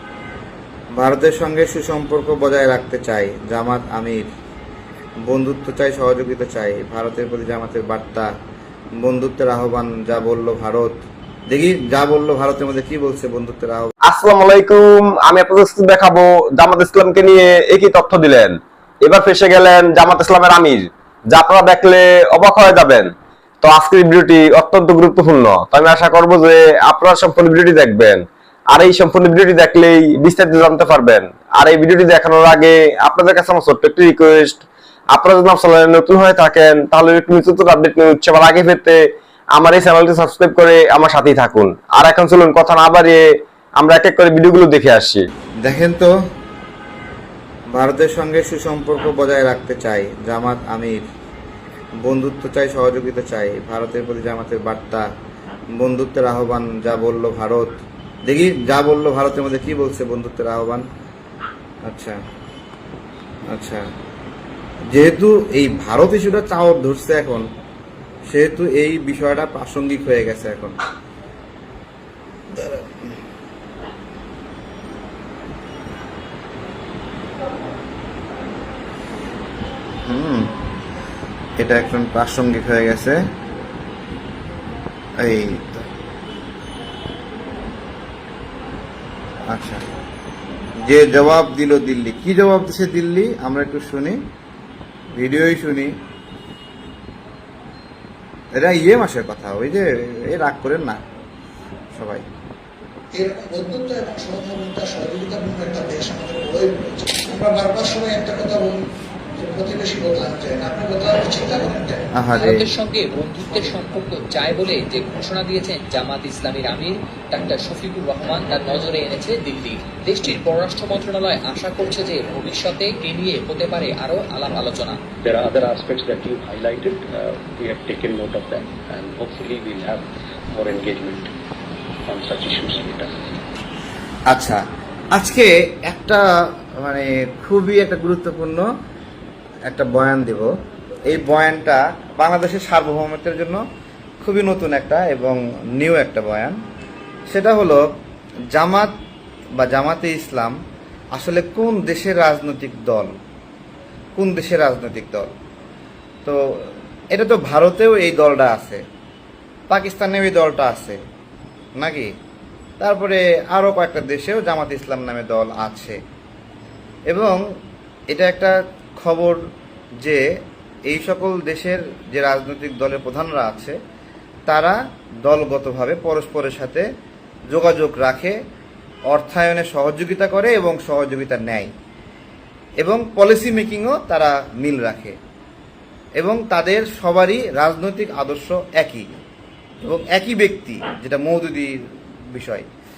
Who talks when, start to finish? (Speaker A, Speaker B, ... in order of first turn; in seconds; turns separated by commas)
Speaker A: 1.0-4.2, Speaker A: 5.3-8.3, Speaker A: 9.0-13.9, Speaker B: 14.0-23.1, Speaker B: 23.6-39.0, Speaker B: 39.5-43.2, Speaker B: 43.8-45.3, Speaker A: 45.6-46.1, Speaker A: 47.7-51.0, Speaker A: 52.0-55.1, Speaker A: 55.8-60.9, Speaker A: 61.9-62.2, Speaker A: 63.5-63.9, Speaker A: 64.9-67.5, Speaker A: 68.3-70.8, Speaker A: 72.5-73.1, Speaker A: 80.1-80.5, Speaker A: 81.6-83.2, Speaker A: 85.2-85.9, Speaker A: 89.5-89.8, Speaker A: 90.8-94.2, Speaker A: 95.2-95.9, Speaker A: 98.6-101.0, Speaker A: 101.9-102.2, Speaker C: 103.2-108.8, Speaker C: 109.4-112.0, Speaker A: 112.2-112.7, Speaker D: 112.3-125.0, Speaker E: 125.2-131.3, Speaker E: 132.1-133.2, Speaker A: 134.3-134.6, Speaker A: 135.1-136.3, Speaker A: 136.8-138.7, Speaker A: 139.7-140.5, Speaker A: 141.1-143.6, Speaker A: 144.2-146.6, Speaker A: 147.3-147.8, Speaker A: 148.5-148.9, Speaker A: 149.6-150.6, Speaker A: 151.2-153.1, Speaker A: 154.2-155.3, Speaker A: 157.1-158.8, Speaker A: 159.7-161.0, Speaker A: 161.8-162.1, Speaker A: 162.8-166.0, Speaker A: 167.1-167.4, Speaker A: 168.1-169.4, Speaker A: 170.9-173.8, Speaker A: 174.5-176.9, Speaker A: 177.5-178.4, Speaker A: 179.1-181.7, Speaker A: 182.8-185.2, Speaker A: 186.2-189.1, Speaker A: 189.8-191.8, Speaker A: 192.3-192.7